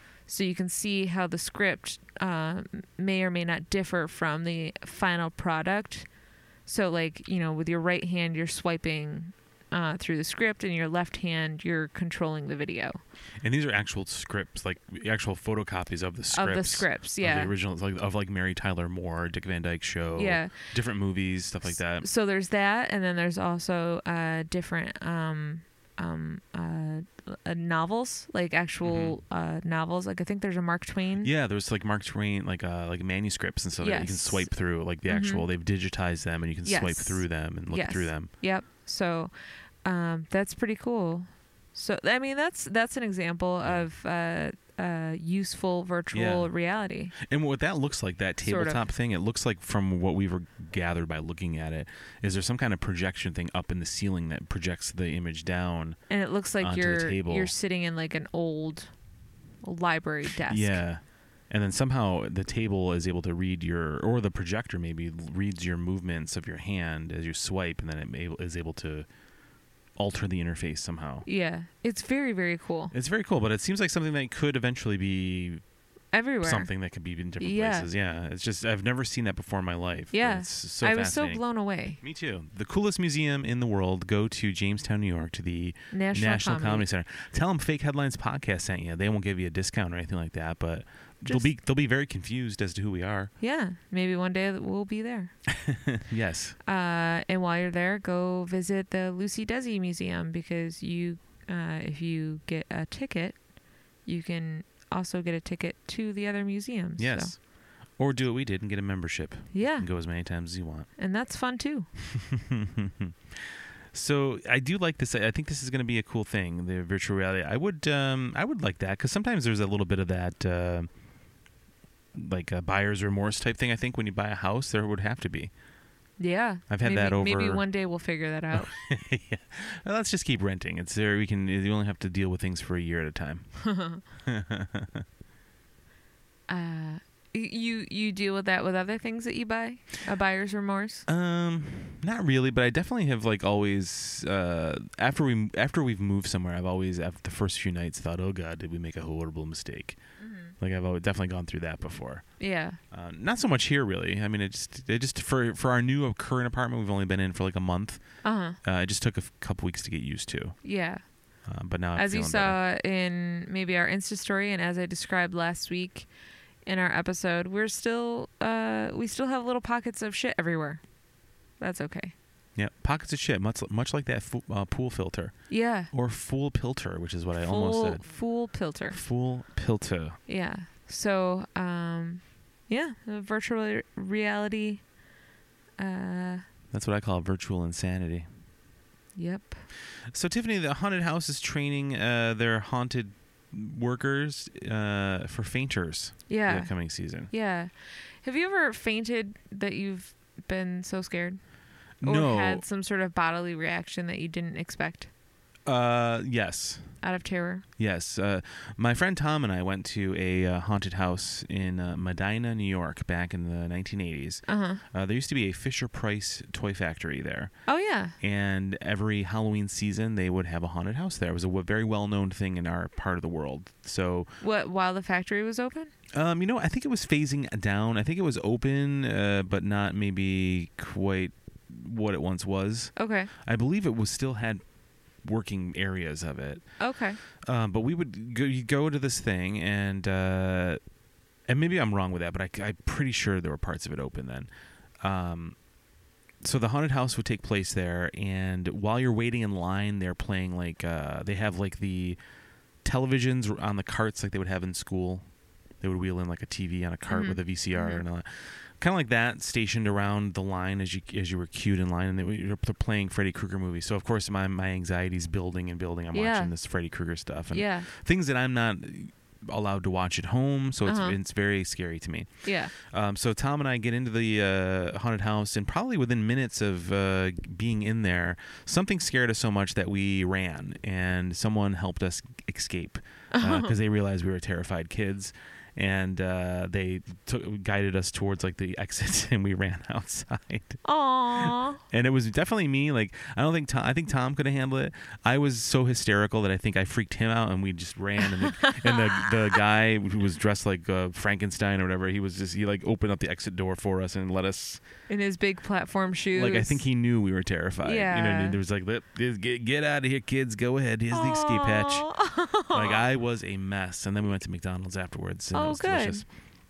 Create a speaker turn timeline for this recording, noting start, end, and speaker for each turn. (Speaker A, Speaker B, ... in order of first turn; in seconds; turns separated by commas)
Speaker A: 0.3-6.1, Speaker A: 6.7-13.0, Speaker B: 13.4-22.1, Speaker A: 16.3-17.5, Speaker A: 20.2-20.6, Speaker A: 22.0-31.3, Speaker B: 28.8-29.2, Speaker B: 31.2-38.3, Speaker A: 33.8-34.5, Speaker A: 35.1-35.5, Speaker A: 36.6-39.3, Speaker A: 39.9-47.1, Speaker B: 46.1-46.5, Speaker B: 47.2-56.0, Speaker A: 48.4-48.9, Speaker A: 56.1-58.9, Speaker B: 56.6-57.5, Speaker A: 59.6-60.8, Speaker B: 60.5-69.1, Speaker B: 70.0-71.3, Speaker A: 71.3-72.9, Speaker B: 72.9-75.6, Speaker A: 76.1-76.7, Speaker B: 76.4-81.4, Speaker A: 77.4-77.9, Speaker A: 80.1-82.0, Speaker B: 82.0-93.3, Speaker A: 85.9-86.9, Speaker A: 93.4-95.3, Speaker B: 95.5-96.6, Speaker A: 96.7-103.4, Speaker A: 104.1-107.3, Speaker B: 107.0-107.4, Speaker B: 108.0-110.9, Speaker A: 109.5-109.9, Speaker A: 111.0-111.9, Speaker B: 112.0-120.9, Speaker B: 122.1-125.5, Speaker A: 126.2-128.7, Speaker B: 126.7-127.6, Speaker B: 128.5-133.5, Speaker A: 133.6-134.0, Speaker B: 134.2-135.1, Speaker A: 136.5-141.1, Speaker B: 141.1-150.0, Speaker A: 150.2-150.5, Speaker B: 150.6-152.2, Speaker A: 152.4-152.8, Speaker B: 152.9-158.0, Speaker A: 158.2-158.6, Speaker B: 158.6-160.6, Speaker A: 160.6-161.0, Speaker B: 161.5-162.6, Speaker A: 162.0-166.1, Speaker A: 166.7-170.8, Speaker A: 171.6-172.2, Speaker B: 172.6-175.4, Speaker A: 175.5-175.9, Speaker B: 175.9-178.0, Speaker A: 177.4-179.0, Speaker B: 178.9-180.2, Speaker A: 180.3-184.8, Speaker A: 185.8-186.4, Speaker B: 186.7-188.3, Speaker A: 189.2-189.6, Speaker B: 190.1-197.3, Speaker A: 196.3-196.7, Speaker A: 197.3-197.7, Speaker A: 198.2-201.4, Speaker B: 202.0-202.6, Speaker A: 202.0-205.1, Speaker B: 205.7-206.9, Speaker A: 207.0-207.7, Speaker B: 207.8-217.5, Speaker A: 214.5-214.8, Speaker A: 217.7-218.2, Speaker B: 218.2-224.3, Speaker A: 224.4-225.9, Speaker B: 226.1-234.6, Speaker A: 233.0-233.3, Speaker B: 235.2-236.7, Speaker A: 236.8-237.2, Speaker B: 237.4-240.8, Speaker B: 241.5-244.5, Speaker B: 245.0-245.6, Speaker B: 246.4-252.2, Speaker B: 252.8-255.3, Speaker B: 255.8-290.8, Speaker A: 257.1-258.0, Speaker A: 266.1-266.5, Speaker A: 267.5-267.9, Speaker A: 270.9-271.2, Speaker A: 272.4-272.7, Speaker A: 283.3-283.8, Speaker A: 290.8-291.8, Speaker B: 291.4-304.8, Speaker A: 298.2-299.6, Speaker A: 305.1-306.8, Speaker B: 306.3-312.1, Speaker A: 307.8-308.6, Speaker A: 311.1-313.0, Speaker B: 312.7-316.3, Speaker A: 315.5-316.2